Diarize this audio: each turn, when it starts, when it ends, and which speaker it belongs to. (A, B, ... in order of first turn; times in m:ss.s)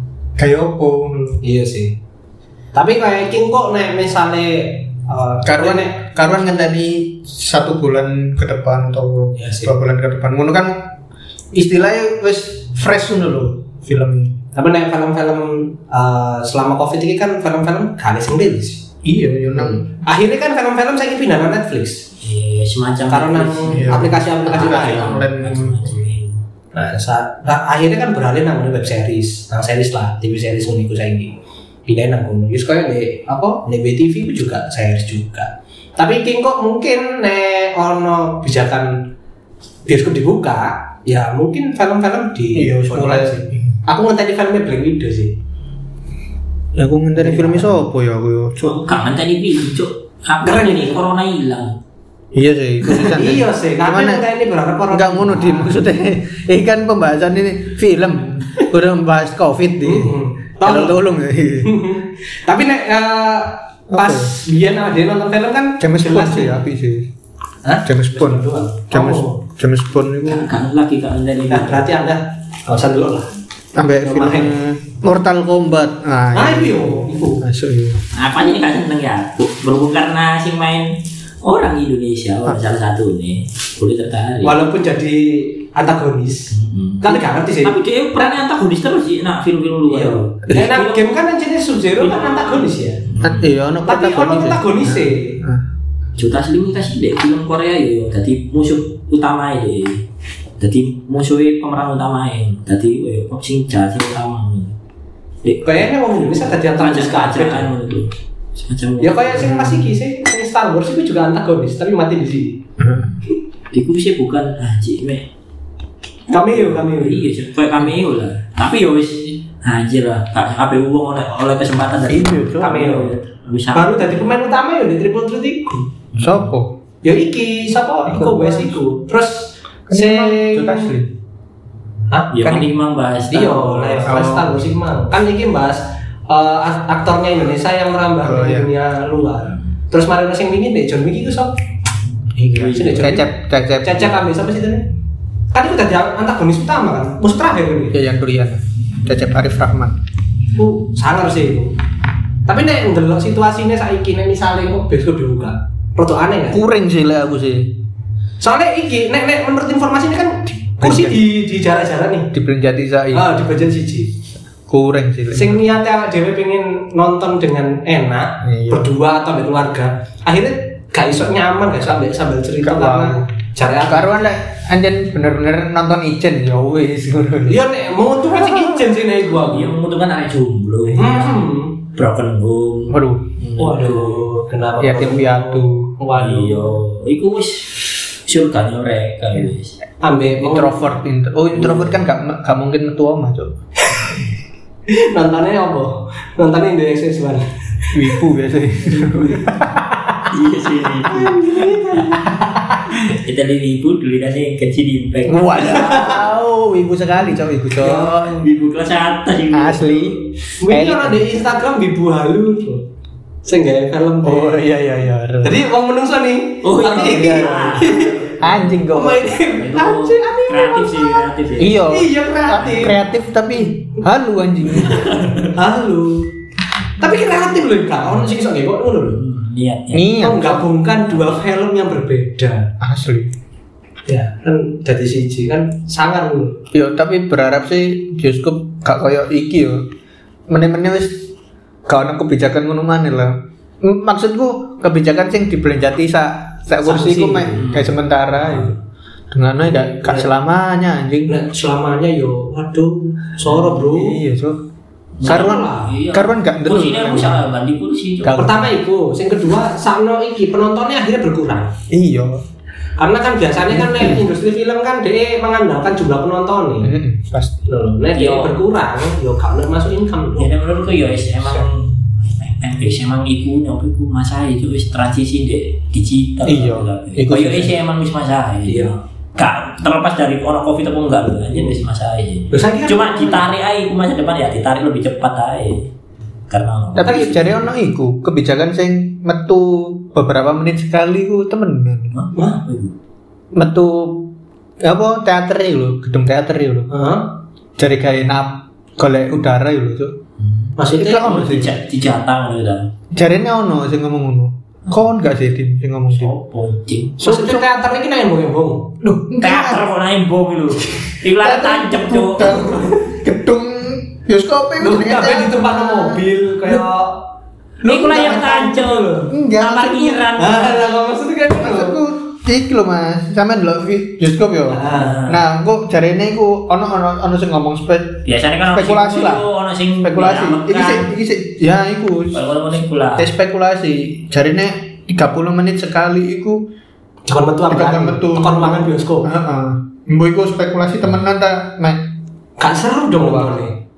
0:00.4-0:01.4 A
0:01.4-0:01.9 B
0:02.7-0:06.0 B
0:05.4-0:10.9 A
0:09.4-0:09.7 B
0:11.5-0:14.4 A
0:14.5-0:18.9 B
0:19.0-0:19.8 A
0:20.0-0:22.0 B
0:22.2-0:26.4 C
0:23.1-0:25.2 B
0:23.7-0:26.0 A
0:26.7-0:31.3 B
0:31.9-0:39.1 B
0:39.9-0:45.3 B
0:42.5-0:43.8 A
0:46.7-0:48.6 A
0:47.2-0:47.7 B
0:48.6-0:51.8 C
0:50.4-0:51.0 B
0:52.3-0:54.2 A
0:52.8-0:55.8 B
0:54.9-1:01.8 A
0:59.8-1:01.0 B
1:01.6-1:06.6 B
1:03.9-1:04.4 A
1:05.8-1:07.1 A
1:07.6-1:09.4 B
1:07.8-1:10.5 A
1:10.3-1:11.9 C
1:11.5-1:13.3 B
1:13.7-1:18.0 A
1:14.0-1:14.6 B
1:16.3-1:17.4 B
1:18.1-1:24.6 C
1:24.4-1:27.7 B
1:26.5-1:31.0 C
1:29.9-1:33.0 B
1:32.0-1:33.5 C
1:33.2-1:35.6 A
1:33.8-1:35.4 B
1:36.2-1:40.0 C
1:40.6-1:44.7 C
1:45.4-1:49.8 C
1:45.6-1:47.7 B
1:49.0-1:52.6 B
1:49.5-1:49.8 A
1:52.8-1:53.1 A
1:52.9-1:55.3 C
1:56.3-1:57.2 B
1:56.5-2:04.3 C
2:02.1-2:03.1 B
2:02.1-2:02.6 A
2:03.7-2:05.8 B
2:06.1-2:06.5 C
2:06.2-2:06.8 A
2:07.0-2:10.9 B
2:08.0-2:08.8 A
2:09.9-2:11.1 A
2:12.1-2:12.7 B
2:12.3-2:14.2 C
2:13.3-2:21.5 B
2:14.0-2:14.6 A
2:18.2-2:18.7 A
2:22.4-2:23.3 B
2:22.5-2:23.2 C
2:23.0-2:24.2 A
2:23.8-2:24.9 B
2:25.5-2:28.0 B
2:27.9-2:30.0 A
2:30.6-2:31.7 B
2:32.4-2:36.6 B
2:36.5-2:37.7 A
2:38.4-2:42.3 B
2:40.8-2:41.2 A
2:42.3-2:43.3 A
2:43.1-2:44.1 B
2:44.7-2:45.7 A
2:45.3-2:54.2 B
2:48.4-2:48.9 A
2:52.6-2:57.6 A
2:57.5-2:59.8 B
2:58.4-2:58.8 A
2:59.3-3:04.2 C
3:00.9-3:01.8 B
3:02.9-3:03.3 A
3:03.6-3:06.7 B
3:04.8-3:05.9 A
3:06.1-3:09.8 C
3:10.0-3:10.8 B
3:10.4-3:13.6 A
3:11.5-3:12.0 C
3:14.9-3:17.4 B
3:17.9-3:20.2 A
3:18.9-3:19.6 C
3:20.3-3:22.0 C
3:21.0-3:22.3 B
3:22.3-3:23.1 A
3:22.9-3:25.9 C
3:25.2-3:28.5 A
3:25.6-3:26.2 B
3:27.7-3:30.2 C
3:29.5-3:31.2 A
3:30.6-3:32.8 B
3:33.4-3:34.6 B
3:34.2-3:35.6 A
3:35.4-3:38.2 B
3:36.6-3:38.8 C
3:37.0-3:39.3 A
3:38.9-3:41.2 B
3:39.6-3:41.8 C
3:41.6-3:45.4 A
3:41.9-3:42.9 B
3:44.8-3:45.5 C
3:45.5-3:46.3 B
3:47.0-3:49.2 B
3:49.1-3:50.2 C
3:49.9-3:50.6 A
3:50.2-3:52.7 B
3:52.8-3:53.3 A
3:54.1-3:56.6 B
3:56.7-3:59.9 A
4:00.5-4:01.2 A
4:01.8-4:08.7 A
4:06.8-4:07.6 B
4:07.6-4:08.7 C
4:09.3-4:11.4 A
4:09.9-4:10.3 B
4:11.3-4:14.2 B
4:13.7-4:14.6 A
4:15.2-4:18.5 C
4:15.2-4:15.9 B
4:15.2-4:17.5 A
4:18.2-4:18.7 A
4:18.4-4:21.7 B
4:21.9-4:22.4 A
4:23.0-4:26.9 B
4:23.7-4:24.2 A
4:26.8-4:27.6 A
4:27.7-4:30.5 B
4:28.1-4:28.6 C
4:30.4-4:45.9 C
4:36.4-4:37.7 A
4:38.6-4:39.0 B
4:42.5-4:43.5 B
4:46.5-4:47.7 C
4:47.0-4:52.1 A
4:47.0-4:47.3 B
4:52.1-4:53.0 C
4:52.3-4:52.6 B
4:53.5-4:56.9 A
4:56.9-4:57.3 B
4:57.8-5:00.2 A
5:00.4-5:02.9 C
5:00.8-5:01.3 B
5:01.0-5:01.7 A
5:03.1-5:06.3 A
5:06.1-5:07.2 C
5:07.2-5:07.7 A
5:07.2-5:09.0 B
5:09.0-5:09.8 A
5:09.4-5:12.7 C
5:11.0-5:16.8 A
5:14.8-5:17.2 B
5:17.8-5:19.3 B
5:17.8-5:20.8 C
5:19.3-5:20.3 A
5:20.4-5:22.0 B
5:21.6-5:29.4 A
5:24.7-5:25.2 B
5:24.9-5:25.4 C
5:28.2-5:31.1 C
5:30.0-5:32.4 A
5:32.3-5:33.3 C
5:33.2-5:36.6 A
5:37.3-5:39.3 B
5:37.7-5:42.0 A
5:42.6-5:43.8 B
5:43.2-5:43.6 A